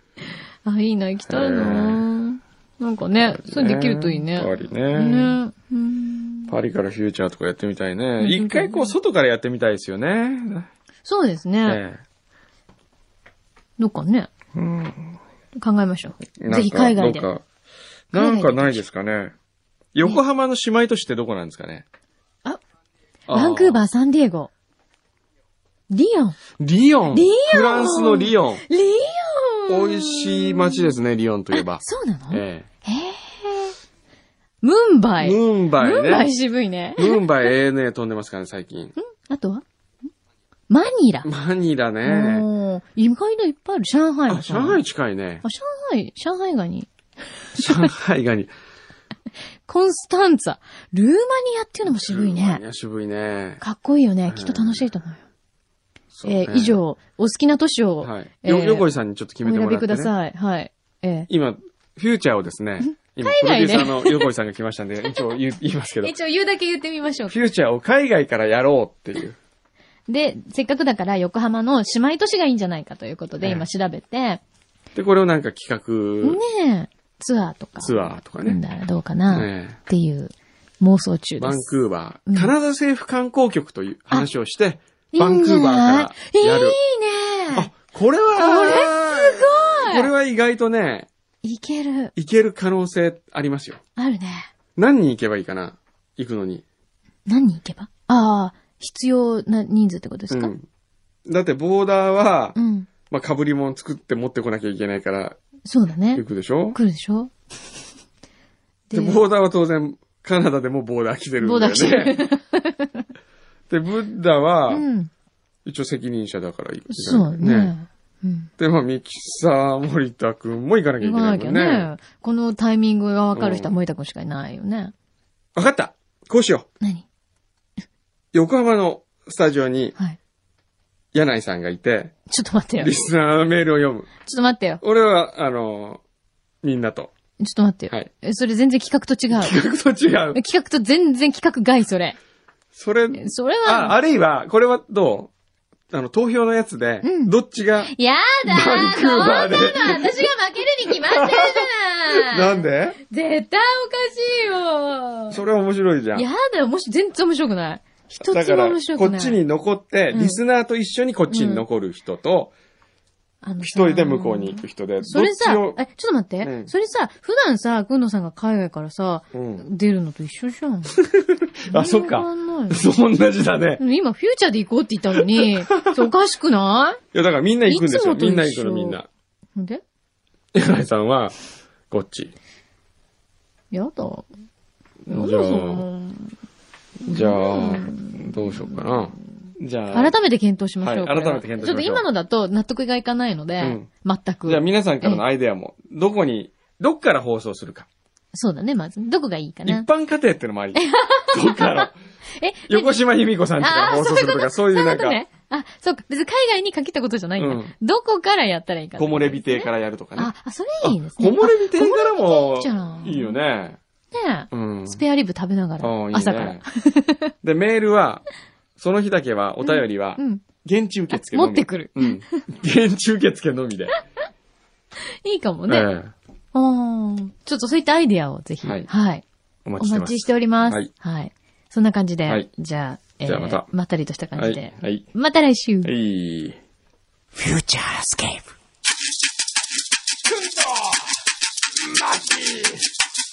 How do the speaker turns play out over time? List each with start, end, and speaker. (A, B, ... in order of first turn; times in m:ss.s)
0:00.6-0:06.5 A
0:01.3-0:02.0 B
0:03.2-0:05.4 B
0:06.5-0:10.7 B
0:08.2-0:09.0 A
0:11.0-0:11.8 A
0:11.6-0:12.0 B
0:13.8-0:14.3 A
0:14.5-0:15.2 B
0:15.6-0:17.3 A
0:16.4-0:17.4 B
0:18.1-0:18.8 A
0:18.1-0:19.3 B
0:19.9-0:21.9 B
0:23.3-0:23.8 B
0:23.3-0:24.5 A
0:25.9-0:26.4 A
0:26.6-0:28.6 B
0:27.1-0:31.0 A
0:29.7-0:32.7 B
0:31.5-0:33.8 A
0:34.6-0:37.2 A
0:35.2-0:36.3 B
0:37.0-0:38.9 B
0:39.0-0:39.6 A
0:40.7-0:41.3 A
0:41.2-0:42.5 B
0:42.0-0:44.8 A
0:44.3-0:45.4 B
0:45.4-0:46.9 A
0:47.5-0:47.9 A
0:47.6-0:48.5 B
0:49.7-0:52.6 A
0:51.9-0:53.6 B
0:53.6-0:55.2 A
0:54.3-0:54.8 B
0:56.1-0:56.8 B
0:56.2-0:58.9 A
0:58.0-1:00.1 B
0:59.4-1:01.3 A
1:01.3-1:06.2 B
1:02.8-1:04.2 A
1:06.0-1:07.4 A
1:07.3-1:09.4 B
1:10.1-1:14.4 A
1:15.0-1:16.4 B
1:16.2-1:21.7 A
1:17.8-1:18.6 B
1:19.3-1:19.8 B
1:21.4-1:26.8 B
1:22.3-1:22.5 A
1:25.1-1:27.7 A
1:27.5-1:31.1 B
1:28.4-1:30.1 A
1:31.4-1:32.1 A
1:32.2-1:33.8 B
1:34.0-1:34.5 A
1:34.8-1:36.6 B
1:37.3-1:40.5 A
1:40.3-1:40.7 B
1:41.3-1:45.4 B
1:42.6-1:42.9 A
1:45.6-1:47.3 A
1:46.2-1:46.8 B
1:48.9-1:49.2 A
1:48.9-1:52.2 B
1:51.4-1:53.0 A
1:53.7-1:54.9 B
1:54.7-1:55.1 A
1:55.6-1:57.7 B
1:56.9-1:58.5 A
1:58.6-2:01.9 B
2:01.0-2:04.9 A
2:03.4-2:03.7 B
2:05.6-2:06.7 B
2:08.3-2:10.0 B
2:11.1-2:12.1 B
2:12.3-2:12.9 A
2:12.8-2:14.1 B
2:14.2-2:14.8 A
2:14.8-2:16.0 B
2:16.6-2:17.1 B
2:17.4-2:19.6 A
2:19.3-2:20.4 B
2:20.3-2:22.2 A
2:22.7-2:25.3 B
2:23.1-2:24.0 A
2:25.9-2:30.3 B
2:27.0-2:35.4 A
2:30.9-2:33.0 B
2:35.3-2:36.3 B
2:36.1-2:39.4 A
2:38.2-2:42.5 B
2:40.1-2:40.4 A
2:41.3-2:41.6 A
2:43.4-2:51.0 A
2:43.6-2:45.8 B
2:46.4-2:46.7 B
2:49.3-2:49.7 B
2:51.0-2:53.8 B
2:51.7-2:52.8 A
2:53.8-2:57.0 A
2:55.2-2:56.0 B
2:57.1-2:59.1 B
2:57.7-2:59.0 A
2:59.6-2:59.8 A
3:00.5-3:01.3 B
3:01.9-3:02.3 B
3:03.7-3:04.3 A
3:05.1-3:05.8 B
3:05.1-3:06.4 A
3:07.0-3:10.2 B
3:07.0-3:08.8 A
3:09.9-3:15.2 A
3:10.8-3:12.1 B
3:13.6-3:13.9 B
3:14.5-3:17.9 B
3:18.3-3:19.9 A
3:19.7-3:22.0 B
3:20.7-3:23.0 A
3:22.7-3:25.2 B
3:23.6-3:33.4 A
3:27.4-3:27.7 B
3:29.0-3:33.8 B
3:34.1-3:37.3 A
3:34.5-3:35.0 B
3:35.8-3:36.6 B
3:37.4-3:38.2 B
3:38.8-3:43.9 B
3:39.7-3:40.4 A
3:41.1-3:42.2 A
3:45.2-3:45.9 A
3:45.7-3:46.1 B
3:46.5-3:49.2 A
3:48.6-3:48.9 B
3:49.6-3:50.9 B
3:49.8-3:55.9 A
3:53.2-3:53.7 B
3:54.4-3:55.1 B
3:55.8-3:56.6 B
3:57.4-3:58.4 B
4:02.0-4:02.8 B